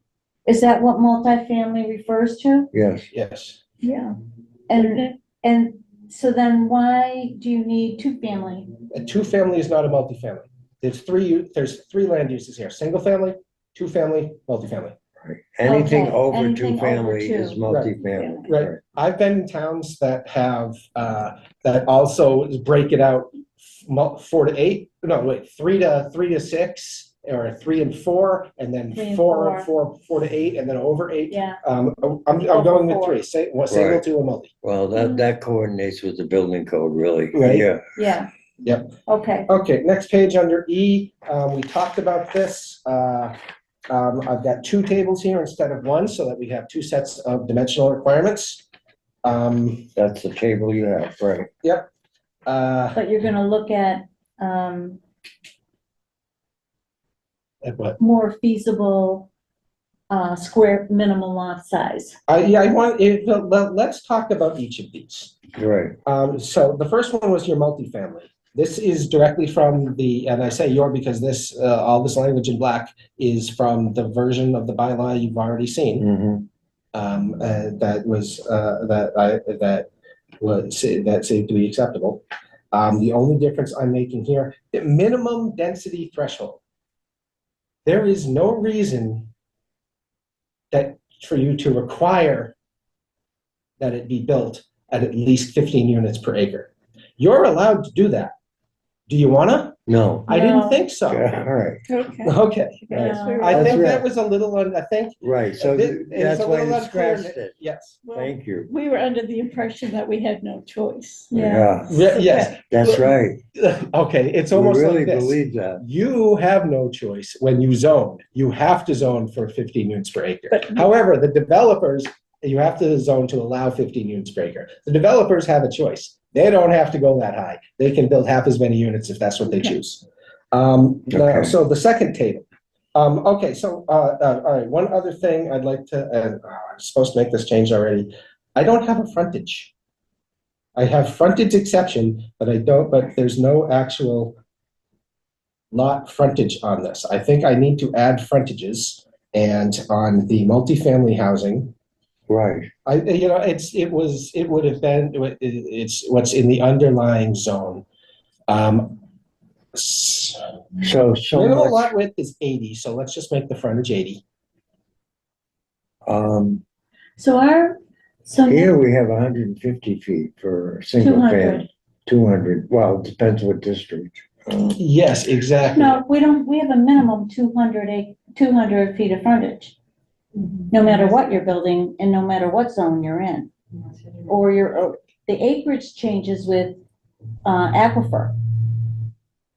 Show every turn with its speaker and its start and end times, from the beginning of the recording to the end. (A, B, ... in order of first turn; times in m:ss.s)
0:00.5-0:02.7 A
0:02.7-0:03.1 B
0:03.1-0:03.6 C
0:03.8-0:04.2 D
0:04.7-0:08.7 A
0:04.7-0:05.1 D
0:08.9-0:15.0 C
0:15.2-0:18.8 B
0:15.6-0:17.6 A
0:17.7-0:18.0 C
0:18.2-0:18.5 D
0:18.5-0:34.5 C
0:29.0-0:29.7 A
0:31.3-0:31.6 A
0:32.4-0:33.2 A
0:33.7-0:34.0 B
0:34.6-0:37.8 B
0:35.0-0:35.3 A
0:37.3-0:37.7 C
0:38.0-0:38.3 A
0:38.6-0:38.9 C
0:39.1-0:39.5 A
0:39.5-0:43.4 C
0:43.9-0:48.6 C
0:49.2-0:49.9 C
0:50.0-0:51.5 B
0:52.5-0:53.0 C
0:53.0-0:55.0 A
0:57.6-0:58.0 C
0:58.0-0:59.3 A
1:00.1-1:02.2 A
1:02.3-1:05.4 C
1:05.6-1:06.0 B
1:06.1-1:16.1 C
1:16.0-1:16.5 B
1:16.9-1:19.9 C
1:20.4-1:26.6 C
1:27.8-1:29.3 C
1:30.7-1:32.5 C
1:33.8-1:38.3 C
1:39.1-1:41.4 C
1:39.9-1:40.3 B
1:40.3-1:40.9 A
1:41.1-1:41.8 B
1:41.9-1:43.8 D
1:42.2-1:48.0 C
1:42.9-1:43.8 A
1:42.9-1:44.0 B
1:45.2-1:47.5 B
1:48.0-1:51.4 D
1:48.1-1:48.7 B
1:51.3-1:52.4 A
1:51.3-1:52.0 B
1:51.9-2:19.7 C
1:52.7-1:53.4 B
1:54.5-1:55.8 B
2:00.5-2:00.8 D
2:09.5-2:09.8 D
2:11.1-2:11.5 B
2:20.8-2:24.4 C
2:25.7-2:31.7 C
2:32.3-2:32.7 B
2:32.9-2:37.8 C
2:38.5-2:39.0 C
2:39.7-2:40.4 C
2:40.8-2:41.9 B
2:41.3-2:44.2 C
2:46.1-2:46.6 B
2:47.2-2:48.7 A
2:48.5-2:54.8 B
2:51.0-2:51.7 A
2:54.7-2:56.0 C
2:55.6-2:59.8 A
3:00.7-3:03.5 A
3:04.3-3:06.8 A
3:07.4-3:08.4 A